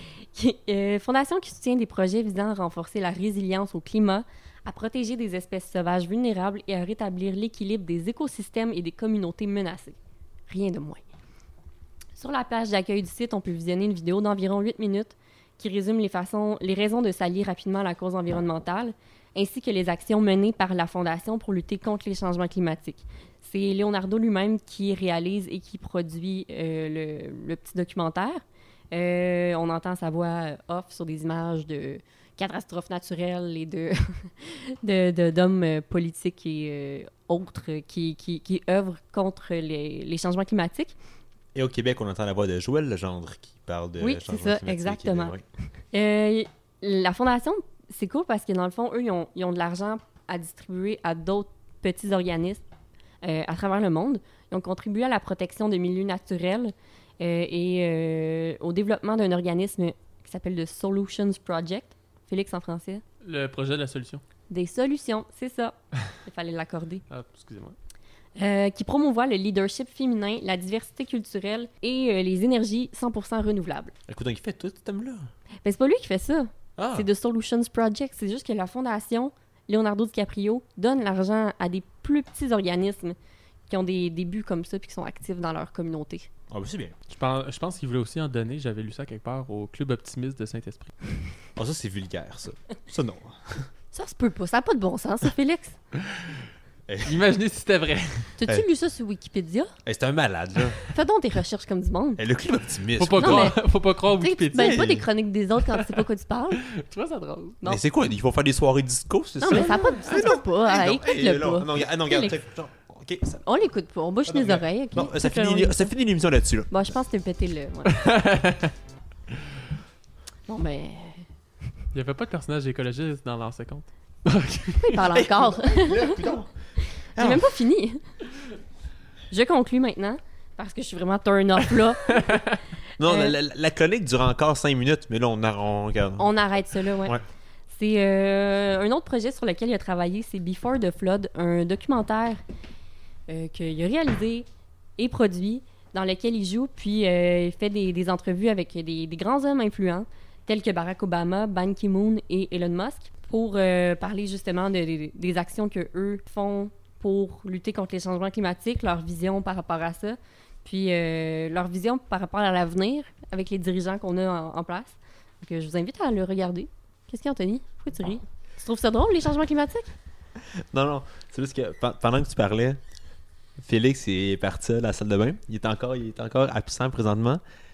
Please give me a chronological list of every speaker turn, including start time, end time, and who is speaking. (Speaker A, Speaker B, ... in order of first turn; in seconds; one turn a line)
Speaker A: 0.2-10.0
Speaker A: 10.5-11.0
Speaker A: 12.2-41.0
Speaker B: 41.5-45.4
Speaker A: 44.0-45.4
Speaker A: 45.9-52.6
Speaker A: 53.2-63.0
Speaker C: 63.2-64.2
Speaker A: 64.5-67.0
Speaker C: 67.1-67.8
Speaker A: 68.4-73.9
Speaker B: 74.1-75.3
Speaker A: 75.6-83.2
Speaker B: 76.8-77.1
Speaker A: 83.7-86.3
Speaker B: 86.5-86.9
Speaker C: 87.1-90.9
Speaker B: 91.6-93.7
Speaker A: 93.9-95.8
Speaker B: 96.9-97.2
Speaker C: 97.0-98.3
Speaker A: 98.4-99.7
Speaker B: 99.9-100.8
Speaker A: 100.9-102.2
Speaker B: 102.2-103.5
Speaker C: 103.0-104.8
Speaker A: 103.1-103.6
Speaker A: 104.2-106.6
Speaker B: 104.5-105.1
Speaker C: 105.7-106.0
Speaker C: 106.7-107.6
Speaker B: 107.7-113.4
Speaker A: 109.4-112.4
Speaker C: 109.5-109.9
Speaker A: 113.5-115.9
Speaker B: 114.3-116.9
Speaker A: 116.7-118.0
Speaker C: 117.9-118.7
Speaker A: 120.5-121.3
Speaker C: 121.9-125.0
Speaker A: 124.8-126.3
Speaker B: 125.2-126.5
Speaker A: 126.9-128.0
Speaker B: 127.2-127.5
Speaker A: 129.3-132.4
Speaker C: 132.1-132.6
Speaker B: 133.0-136.3
Speaker A: 133.0-133.3
Speaker A: 136.2-137.2
Speaker A: 137.7-142.4
Speaker A: 143.3-144.5
Speaker A: 145.0-169.9
Speaker B: 170.7-172.8
Speaker B: 173.6-177.4